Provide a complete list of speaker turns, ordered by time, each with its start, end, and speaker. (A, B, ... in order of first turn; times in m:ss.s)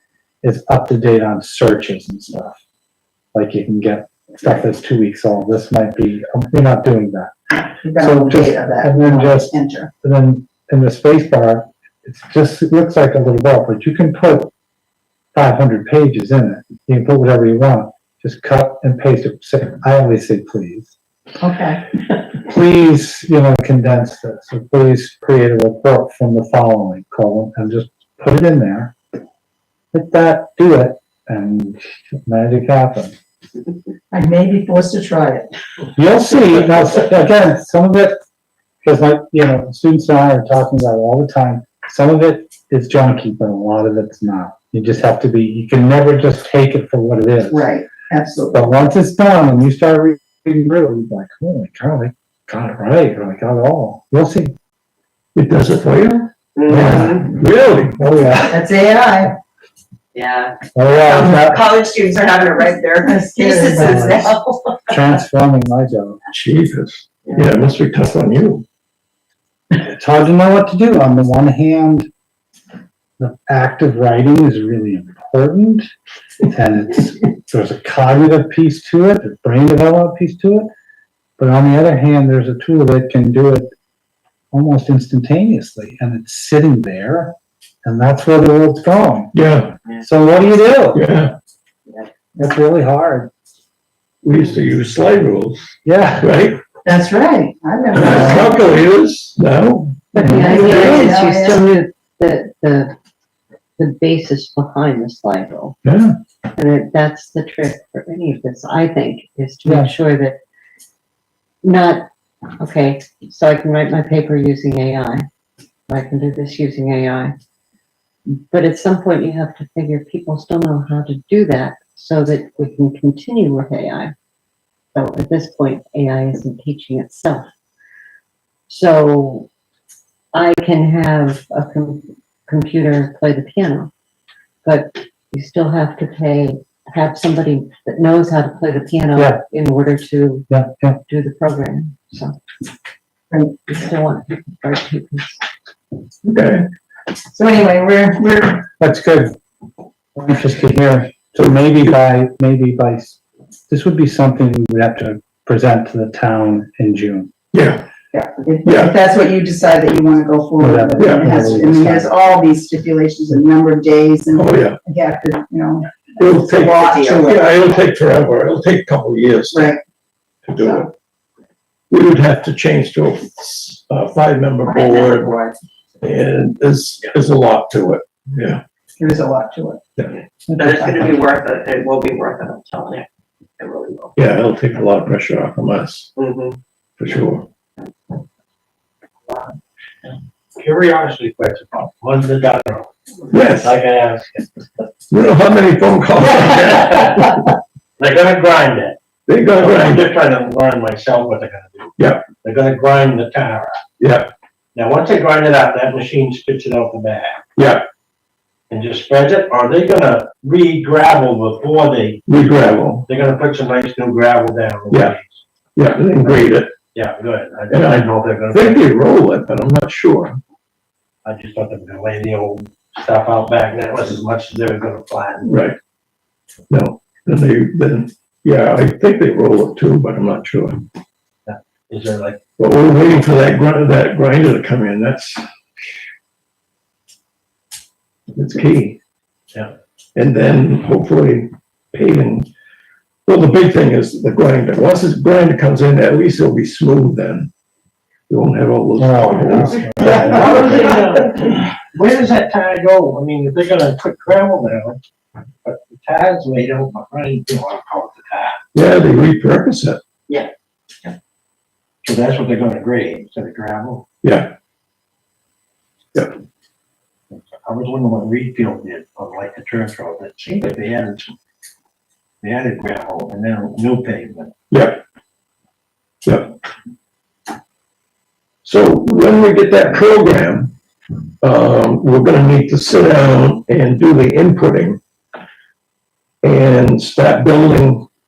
0:00.4-0:02.6 A
0:03.3-0:07.3 A
0:07.8-0:09.9 B
0:08.0-0:14.5 A
0:15.3-0:20.9 A
0:21.4-0:21.8 B
0:22.4-0:29.0 A
0:29.9-0:33.2 A
0:34.1-0:35.5 B
0:35.9-0:38.2 A
0:38.8-0:47.7 A
0:47.5-0:48.6 B
0:48.5-0:54.5 A
0:55.3-0:58.0 C
0:56.6-0:57.2 D
0:56.8-0:57.3 A
0:57.9-0:58.6 A
0:58.4-0:59.3 B
1:00.1-1:04.9 D
1:00.7-1:01.7 A
1:02.6-1:04.2 B
1:03.8-1:04.3 A
1:04.9-1:06.2 A
1:06.3-1:08.6 C
1:09.8-1:12.1 A
1:13.2-1:15.9 A
1:16.5-1:20.7 A
1:21.4-1:23.7 A
1:24.5-1:29.3 A
1:29.3-1:29.8 C
1:30.0-1:31.0 A
1:30.9-1:31.3 C
1:32.4-1:33.3 A
1:34.2-1:36.6 C
1:35.8-1:36.3 A
1:36.8-1:38.7 B
1:37.9-1:41.2 C
1:40.1-1:42.9 E
1:40.1-1:40.6 A
1:40.3-1:41.6 B
1:43.8-1:45.8 E
1:45.8-1:46.1 C
1:46.5-1:50.4 E
1:49.6-1:49.9 A
1:51.6-1:52.0 E
1:52.6-1:55.2 E
1:55.9-1:57.3 E
1:58.3-2:04.1 E
2:04.9-2:07.4 E
2:08.7-2:09.5 E
2:10.3-2:13.9 E
2:14.6-2:20.5 E
2:19.1-2:19.4 A
2:20.5-2:21.0 A
2:21.0-2:22.4 E
2:23.3-2:23.6 B
2:23.7-2:25.4 E
2:26.2-2:26.6 C
2:27.3-2:28.6 B
2:28.8-2:29.4 A
2:30.2-2:37.3 A
2:37.5-2:37.9 C
2:38.1-2:47.5 B
2:38.6-2:39.0 C
2:40.6-2:42.1 A
2:41.0-2:41.3 C
2:44.3-2:44.8 C
2:46.2-2:49.7 C
2:46.4-2:47.2 D
2:49.5-2:49.8 B
2:50.4-2:50.9 C
2:51.9-2:55.4 C
2:54.8-2:55.5 D
2:56.0-2:58.6 C
2:59.0-2:59.8 B
3:00.5-3:01.2 B
3:00.6-3:03.0 D
3:03.6-3:04.2 D
3:04.2-3:06.1 C
3:06.2-3:06.6 D
3:07.0-3:07.5 C
3:10.6-3:14.6 F
3:13.3-3:13.7 C
3:15.1-3:17.5 C
3:16.7-3:17.2 F
3:18.0-3:19.0 F
3:19.3-3:20.1 C
3:19.5-3:23.8 F
3:22.0-3:22.3 C
3:24.0-3:24.3 C
3:24.7-3:27.4 F
3:27.6-3:27.8 C
3:28.7-3:32.2 F
3:32.3-3:33.0 C
3:33.0-3:35.4 F
3:35.8-3:36.7 C
3:36.9-3:38.9 F
3:37.7-3:40.4 C
3:41.2-3:45.6 F
3:45.4-3:45.8 C
3:46.7-3:50.8 C
3:51.4-3:52.4 F
3:52.6-3:55.4 C
3:58.3-3:59.0 C
4:00.2-4:02.5 C
4:03.2-4:07.5 C
4:08.3-4:10.8 C
4:09.0-4:10.8 A
4:10.0-4:11.2 D
4:10.0-4:15.0 F
4:15.6-4:18.6 F
4:18.7-4:20.0 C
4:22.0-4:24.0 F
4:24.2-4:24.5 C
4:27.6-4:31.3 F
4:32.4-4:34.5 F
4:34.7-4:35.0 C
4:36.2-4:36.5 C
4:38.6-4:40.7 C
4:41.4-4:45.0 C
4:46.4-4:48.1 C